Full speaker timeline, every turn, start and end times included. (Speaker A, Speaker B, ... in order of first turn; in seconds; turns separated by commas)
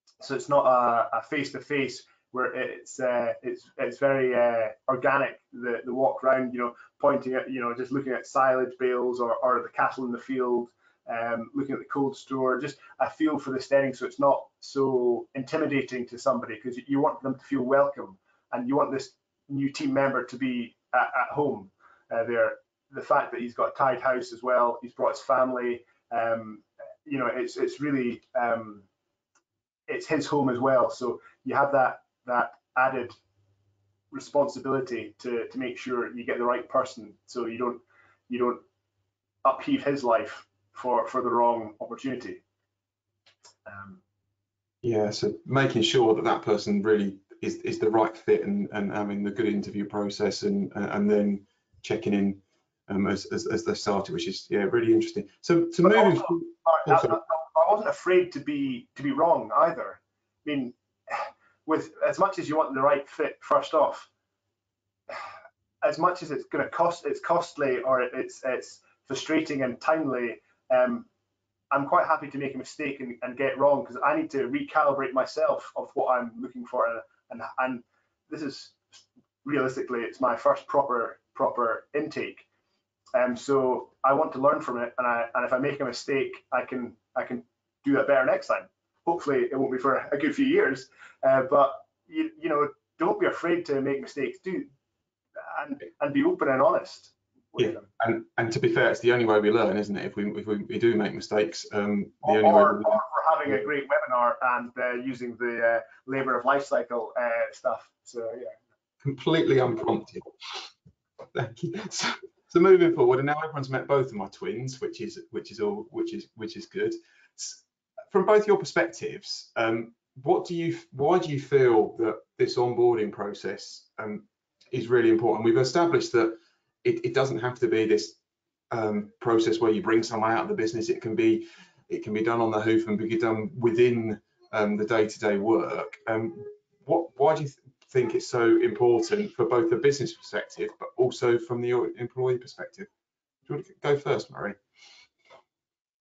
Speaker A: 0.2-28.9, Speaker A: 29.9-33.2, Speaker A: 34.1-38.6, Speaker A: 39.4-42.4, Speaker A: 43.6-44.0, Speaker B: 44.8-57.2, Speaker A: 55.8-64.1, Speaker A: 65.8-71.1, Speaker A: 71.7-78.8, Speaker A: 79.4-82.5, Speaker A: 83.1-94.7, Speaker A: 95.4-97.9, Speaker B: 97.6-103.0, Speaker A: 102.2-108.6, Speaker B: 109.0-110.3, Speaker B: 111.3-128.2, Speaker B: 128.7-142.9, Speaker B: 143.5-144.6